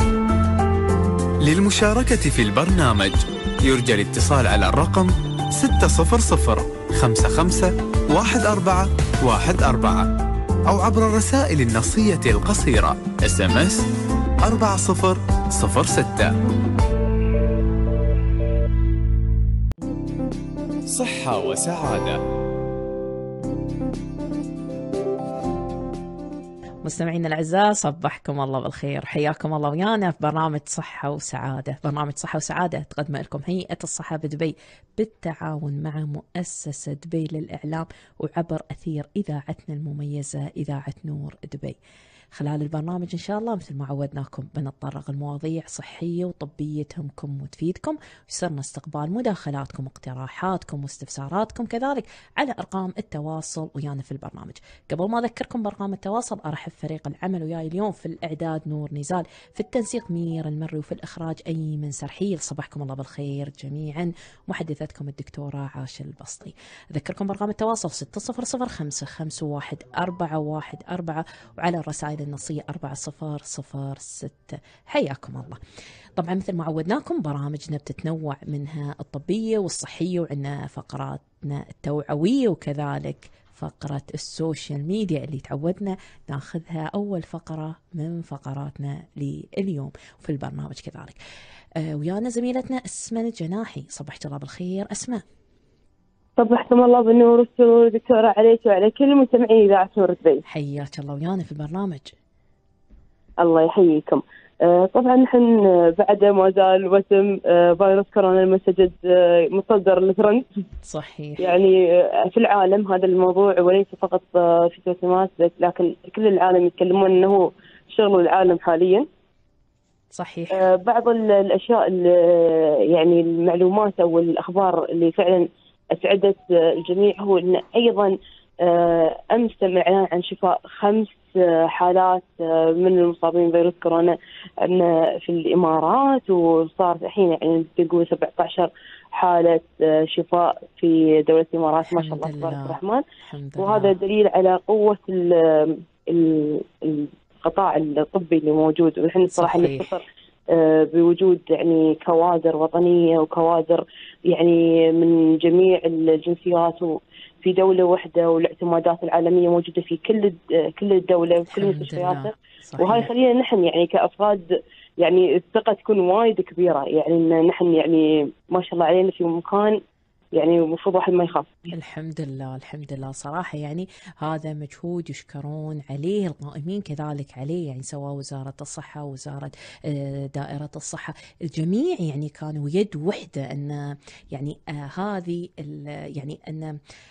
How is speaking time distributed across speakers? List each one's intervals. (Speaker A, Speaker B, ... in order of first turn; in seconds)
Speaker A: 1.4-10.1, 10.7-13.8, 14.4-16.3, 20.9-22.2
Speaker B: 26.8-41.8, 42.3-75.6, 76.2-91.2, 91.8-95.2, 100.5-102.1, 110.8-111.5, 120.1-120.6, 141.9-143.9, 149.3-149.9, 161.5-163.1, 171.7-186.8
Speaker C: 96.4-100.4, 103.4-110.5, 111.4-119.0, 120.5-143.0, 143.6-164.4, 165.0-169.8, 170.3-171.7